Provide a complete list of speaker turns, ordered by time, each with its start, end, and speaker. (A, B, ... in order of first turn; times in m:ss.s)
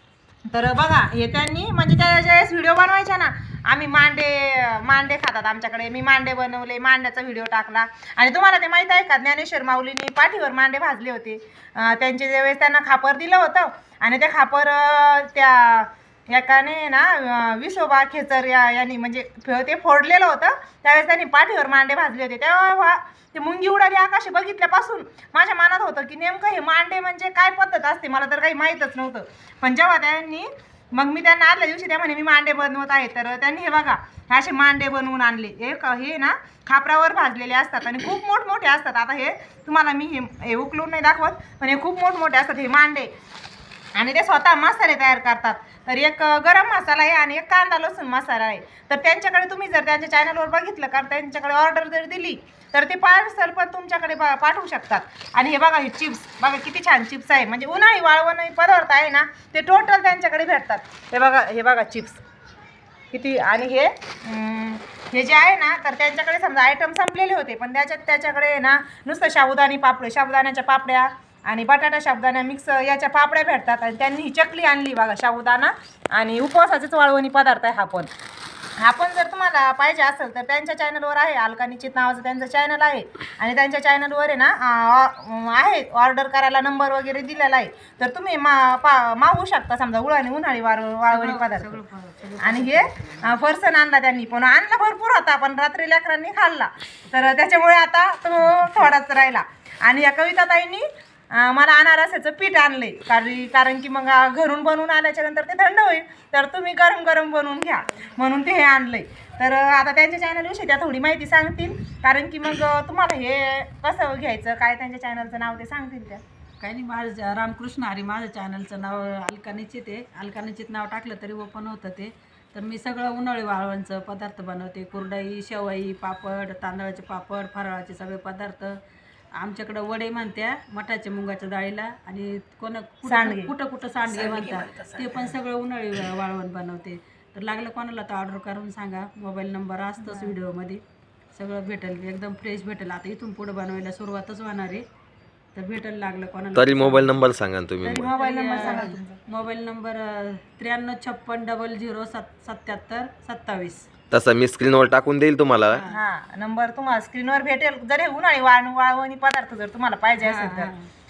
0:00.5-0:43.1 A
0:44.0-1:02.2 A
1:03.1-1:18.1 A
1:18.8-1:31.8 A
1:31.1-1:33.4 B
1:32.4-1:56.2 A
1:56.6-2:08.8 B
2:09.4-2:24.8 B
2:13.0-2:13.5 A
2:20.0-2:20.3 A
2:25.5-2:27.2 B
2:26.5-2:28.1 C
2:27.8-2:29.2 A
2:28.0-2:33.9 B
2:34.1-2:35.8 C
2:35.7-2:36.0 B
2:35.9-2:40.7 A
2:40.2-2:40.9 B